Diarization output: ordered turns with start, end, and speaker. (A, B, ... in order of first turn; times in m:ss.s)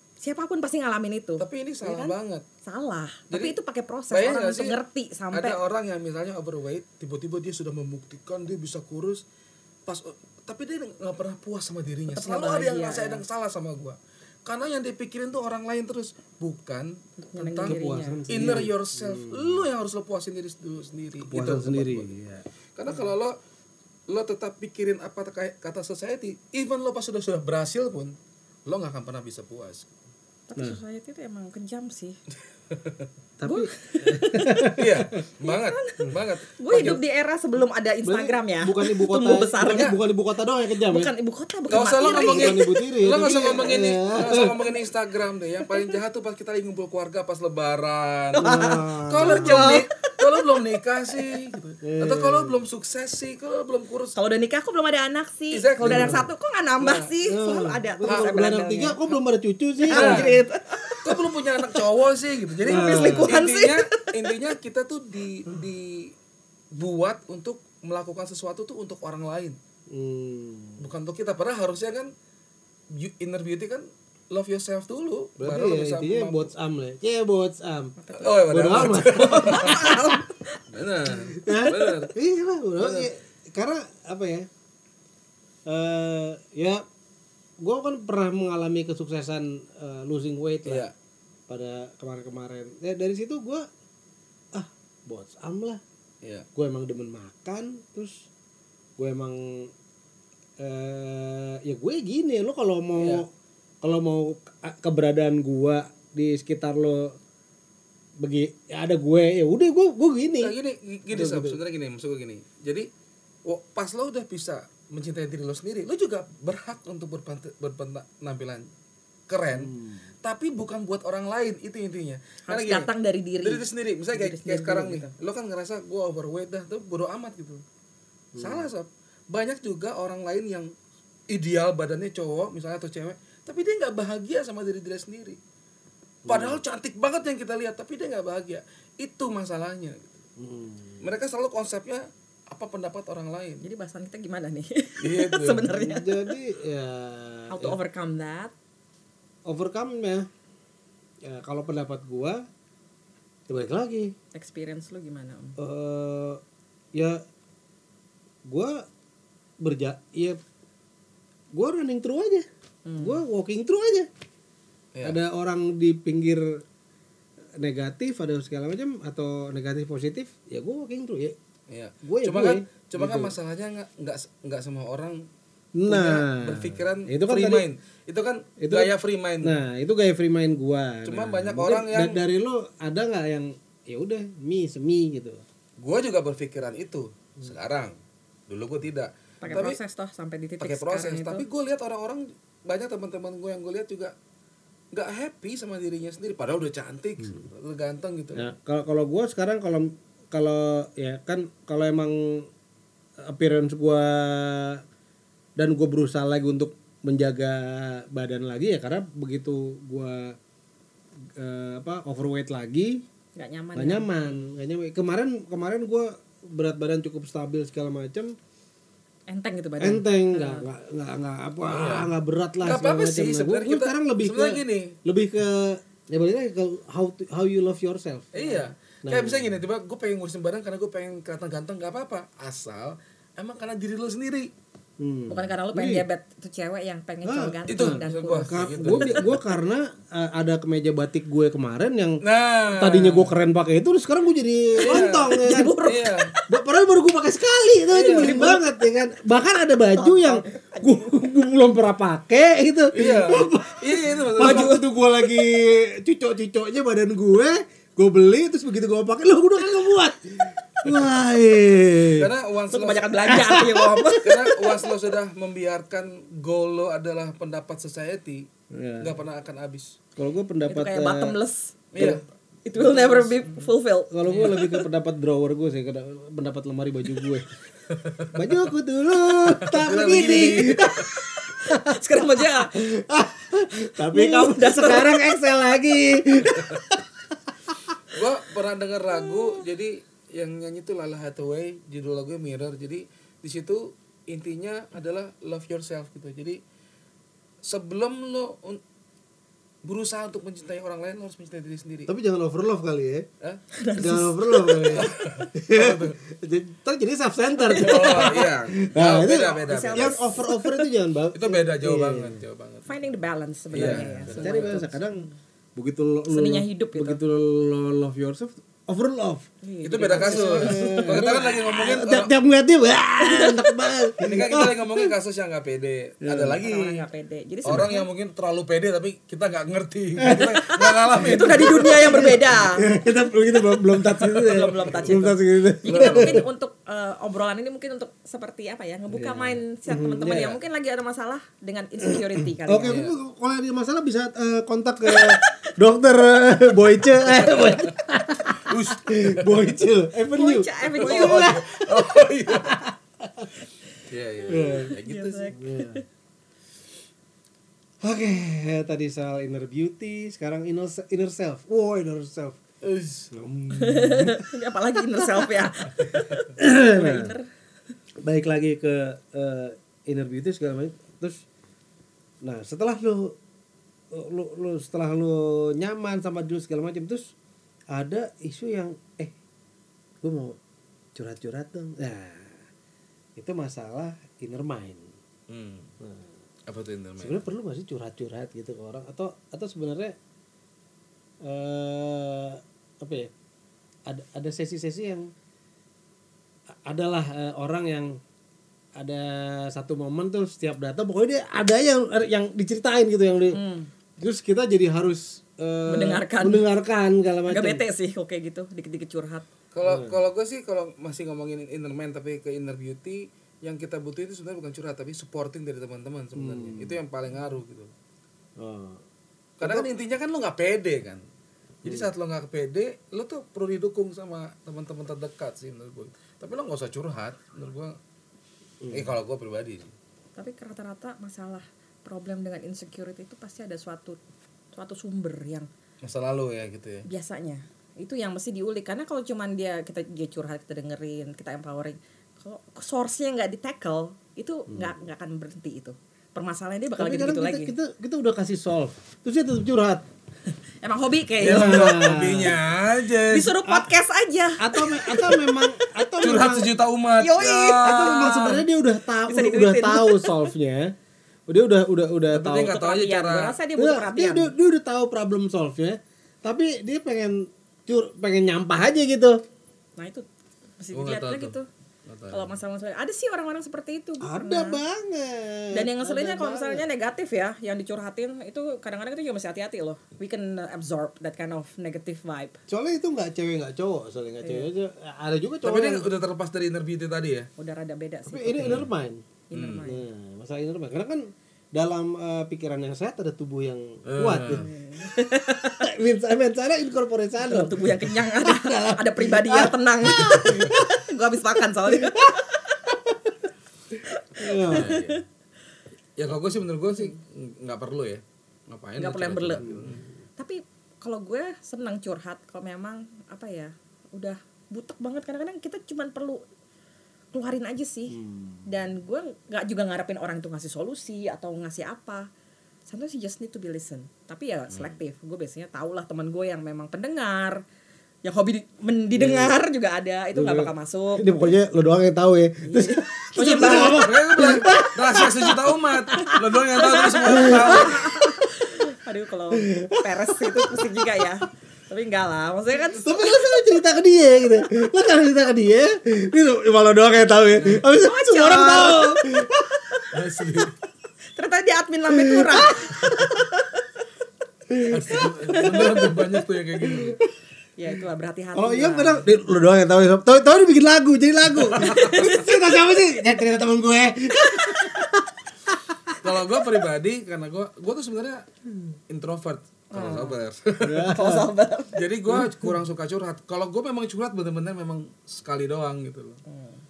0:00.2-0:05.6 A
0:01.4-0:02.4 B
0:04.1-0:04.8 B
0:05.3-0:09.2 B
0:09.9-0:17.8 B
0:12.1-0:13.2 A
0:17.2-0:18.2 A
0:17.6-0:19.6 C
0:18.3-0:22.1 B
0:21.2-0:22.4 C
0:22.8-0:23.4 B
0:24.1-0:29.9 B
0:30.5-0:32.2 A
0:32.7-0:33.0 B
0:33.4-0:35.0 C
0:33.4-0:34.8 A
0:34.8-0:37.0 B
0:35.4-0:39.9 A
0:38.0-0:41.1 C
0:39.6-0:40.0 B
0:40.9-0:43.5 A
0:41.7-0:54.2 B
0:42.0-0:44.6 C
0:45.6-0:45.9 A
0:48.3-0:50.6 A
0:48.4-0:49.8 C
0:51.8-0:52.6 C
0:54.1-0:59.1 A
0:55.5-0:56.3 B
0:55.8-0:56.3 C
0:56.8-0:57.1 B
0:57.2-1:00.4 C
0:58.0-0:58.4 B
0:59.8-1:01.8 A
0:59.9-1:00.3 B
1:01.0-1:06.1 B
1:02.6-1:04.5 A
1:02.6-1:03.4 C
1:06.7-1:09.6 B
1:09.9-1:10.9 C
1:10.8-1:12.1 B
1:12.9-1:16.5 B
1:15.4-1:20.2 C
1:18.0-1:18.3 A
1:18.1-1:20.0 B
1:19.0-1:20.6 A
1:20.7-1:22.1 B
1:21.1-1:24.5 C
1:22.8-1:23.1 B
1:25.6-1:26.8 C
1:27.6-1:30.9 C
1:30.6-1:30.9 B
1:31.5-1:33.7 C
1:34.5-1:35.8 C
1:36.6-1:38.3 C
1:39.0-1:39.7 C
1:40.6-1:43.3 C
1:43.0-1:43.2 B
1:43.8-1:47.2 C
1:48.2-1:50.6 C
1:50.4-1:52.9 B
1:51.1-1:51.6 C
1:53.4-1:58.7 B
1:59.3-2:02.9 B
1:59.5-2:00.1 C
2:02.5-2:05.1 A
2:03.4-2:07.6 B
2:08.3-2:08.7 C
2:08.4-2:10.7 B
2:11.3-2:15.4 B
2:16.2-2:16.6 C
2:16.3-2:20.2 B
2:20.4-2:21.1 C
2:21.0-2:23.6 B
2:23.6-2:26.3 A
2:25.0-2:25.7 B
2:25.6-2:27.8 C
2:27.5-2:28.5 A
2:29.5-2:30.3 C
2:31.2-2:32.4 C
2:33.5-2:34.1 C
2:34.3-2:35.6 A
2:35.6-2:36.4 C
2:36.9-2:37.2 C
2:38.4-2:38.8 C
2:39.6-2:40.4 C
2:41.5-2:42.4 C
2:42.8-2:43.2 A
2:43.0-2:44.1 C
2:45.0-2:46.6 C
2:47.6-2:51.4 C
2:51.7-2:55.2 B
2:52.0-2:53.3 C
2:55.8-2:57.6 C
2:55.9-2:59.6 B
2:58.6-3:05.4 C
3:01.0-3:02.2 B
3:05.8-3:08.0 B
3:08.5-3:09.8 B
3:09.4-3:11.4 A
3:10.6-3:14.1 B
3:14.9-3:18.5 B
3:18.3-3:22.5 C
3:23.2-3:24.8 C
3:25.6-3:30.4 C
3:31.4-3:33.0 C
3:33.4-3:34.2 A
3:33.7-3:38.3 C
3:39.3-3:40.7 A
3:39.8-3:49.6 C
3:41.7-3:42.1 B
3:42.6-3:45.0 B
3:48.3-3:54.5 B
3:55.0-3:56.0 C
3:55.3-3:59.4 A
3:57.2-4:02.2 C
3:57.7-3:59.4 B
4:02.2-4:03.3 B
4:02.7-4:05.8 C
4:04.8-4:06.3 B
4:04.8-4:06.4 A
4:06.5-4:22.3 C
4:07.9-4:08.6 B
4:08.2-4:08.6 A
4:10.0-4:11.1 A
4:12.9-4:14.8 B
4:14.4-4:14.8 A
4:22.1-4:23.4 B
4:22.7-4:24.7 A
4:23.2-4:24.1 C
4:24.2-4:28.5 B
4:28.7-4:29.2 C
4:29.0-4:30.0 B
4:30.2-4:31.4 C
4:30.7-4:34.8 A
4:31.9-4:32.2 B
4:32.0-4:32.2 C
4:32.7-4:33.5 C
4:34.1-4:37.5 C
4:34.2-4:34.6 B
4:37.9-4:38.5 B
4:38.3-4:47.9 C
4:39.4-4:41.2 B
4:41.4-4:42.8 A
4:44.1-4:45.2 A
4:48.1-4:56.6 B
4:57.6-4:58.8 B
4:59.8-5:02.1 B
5:02.1-5:03.3 C
5:03.7-5:05.1 A
5:04.0-5:12.4 C
5:04.9-5:06.2 B
5:07.6-5:08.3 A
5:07.7-5:10.2 B
5:09.6-5:10.9 A
5:11.3-5:12.9 B
5:12.8-5:15.2 A
5:13.7-5:19.5 C
5:13.7-5:14.9 B
5:16.3-5:17.2 A
5:19.6-5:21.8 A
5:19.8-5:22.3 B
5:20.0-5:25.1 C
5:23.2-5:23.7 A
5:24.2-5:27.0 B
5:26.2-5:26.6 C
5:26.6-5:28.1 A
5:27.6-5:32.3 B
5:27.7-5:27.9 C
5:30.2-5:30.6 C
5:30.4-5:32.9 A
5:31.2-5:36.4 C
5:34.2-5:43.0 A
5:34.2-5:35.2 B
5:35.8-5:36.4 B
5:39.1-5:40.6 C
5:42.0-5:53.5 C
5:42.9-5:43.1 B
5:45.0-5:45.7 A
5:47.3-5:48.0 B
5:48.6-5:49.7 B
5:50.3-5:51.6 A
5:51.0-5:52.8 B
5:54.1-5:55.5 B
5:54.5-5:54.9 C
5:54.6-5:56.0 A
5:55.5-5:56.0 C
5:58.0-6:02.6 C
6:02.8-6:03.3 B
6:03.3-6:07.3 C
6:03.7-6:07.5 A
6:08.2-6:11.4 C
6:12.4-6:13.4 C
6:14.1-6:17.3 C
6:17.9-6:19.3 C
6:20.2-6:20.6 C
6:21.1-6:22.7 C
6:23.4-6:25.1 C
6:25.5-6:25.9 B
6:26.0-6:26.3 C
6:26.7-6:27.4 B
6:27.2-6:30.1 C
6:31.4-6:33.3 C
6:34.1-6:35.3 C
6:36.8-6:38.2 C
6:39.0-6:43.6 C
6:43.5-6:43.9 A
6:44.2-6:47.8 C
6:45.9-6:46.7 A
6:47.5-6:49.4 A
6:49.7-6:57.9 B
6:49.8-6:50.2 C
6:56.3-6:57.0 C
6:58.6-6:59.0 C
6:59.6-6:59.9 C
6:59.6-7:01.2 B
7:01.8-7:08.0 B
7:01.8-7:02.1 C
7:08.8-7:09.2 C
7:08.9-7:09.9 B
7:10.4-7:14.2 A
7:14.7-7:15.7 A
7:16.0-7:17.0 B
7:17.0-7:27.7 A
7:24.7-7:25.0 C
7:27.0-7:30.0 C
7:30.8-7:31.9 A
7:31.4-7:32.6 C
7:31.4-7:33.6 B
7:33.3-7:36.0 A
7:34.6-7:36.7 C
7:36.2-7:38.6 B
7:37.2-7:38.4 A
7:37.8-7:40.9 C
7:39.3-7:40.5 A
7:41.5-7:42.7 C
7:42.3-7:43.6 B
7:42.6-7:44.5 A
7:43.8-7:49.4 C
7:50.0-7:50.2 A
7:50.8-7:51.7 A
7:50.9-7:52.5 B
7:52.3-7:54.8 A
7:54.2-7:56.8 C
7:55.7-8:02.6 A
8:02.7-8:06.1 C
8:04.4-8:04.7 A
8:05.6-8:07.5 B
8:07.6-8:08.8 A
8:08.2-8:09.2 C
8:08.6-8:08.9 B
8:09.5-8:10.0 A
8:09.5-8:09.8 B
8:09.8-8:14.7 C
8:14.1-8:14.7 B
8:14.5-8:15.9 A
8:15.7-8:21.0 C
8:17.4-8:22.9 A
8:21.8-8:23.4 C
8:23.9-8:25.0 C
8:24.0-8:25.2 A
8:24.7-8:25.2 B
8:26.2-8:30.0 B
8:29.0-8:29.8 A
8:29.6-8:30.0 C
8:30.4-8:36.4 A
8:37.3-8:42.3 A
8:38.1-8:38.8 C
8:42.9-8:47.6 A
8:44.7-8:45.0 B
8:48.2-8:51.4 A
8:49.2-8:49.6 C
8:50.3-8:56.4 C
8:52.6-8:54.1 A
8:53.4-8:58.1 B
8:56.8-9:03.4 A
8:57.0-8:58.5 C
8:59.6-9:01.3 C
9:02.8-9:10.1 C
9:07.6-9:07.8 B
9:08.0-9:09.3 A
9:10.1-9:10.8 B
9:11.4-9:13.8 A
9:12.1-9:13.0 C
9:14.7-9:15.9 C
9:14.9-9:17.2 B
9:15.5-9:16.1 A
9:16.9-9:17.2 C
9:17.8-9:19.3 A
9:18.5-9:26.2 C
9:21.6-9:22.4 B
9:21.8-9:22.5 A
9:26.2-9:28.4 B
9:29.1-9:31.1 B
9:29.9-9:30.4 A
9:30.8-9:31.5 C
9:31.0-9:31.9 A
9:31.9-9:36.4 B
9:32.3-9:32.8 C
9:36.5-9:36.8 A